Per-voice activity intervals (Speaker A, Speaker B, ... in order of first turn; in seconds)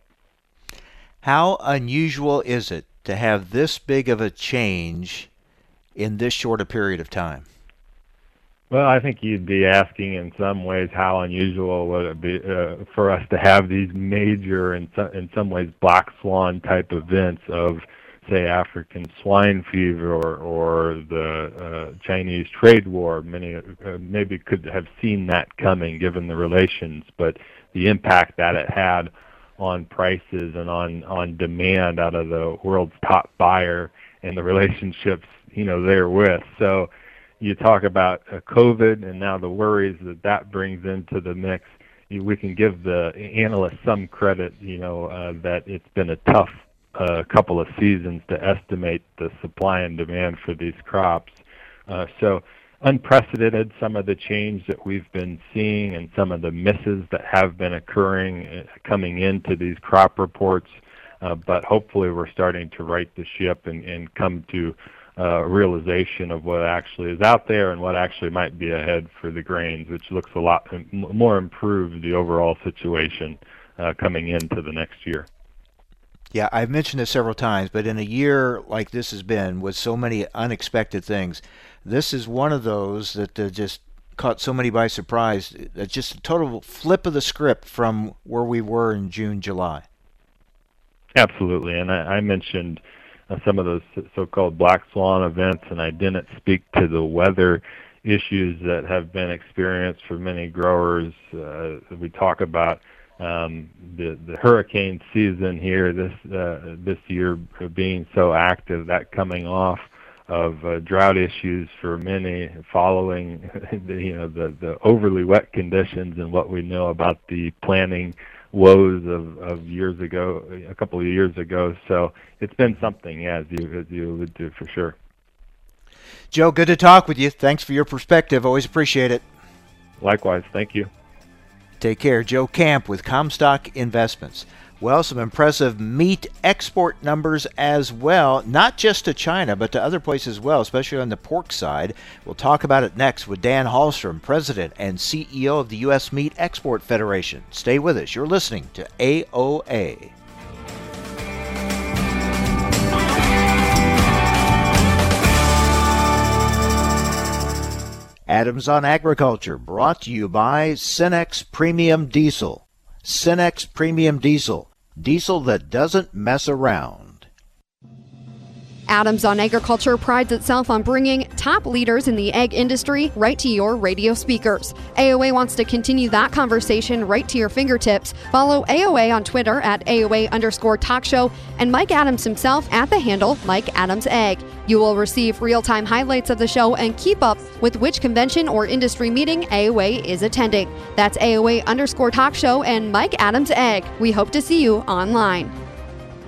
Speaker A: 1.2-5.3, 6.0-7.5, 76.3-89.8, 126.3-129.2, 131.8-150.1, 158.3-167.3
Speaker B: 8.7-51.4, 51.9-75.3, 91.2-125.0, 130.0-130.9
Speaker C: 168.9-195.5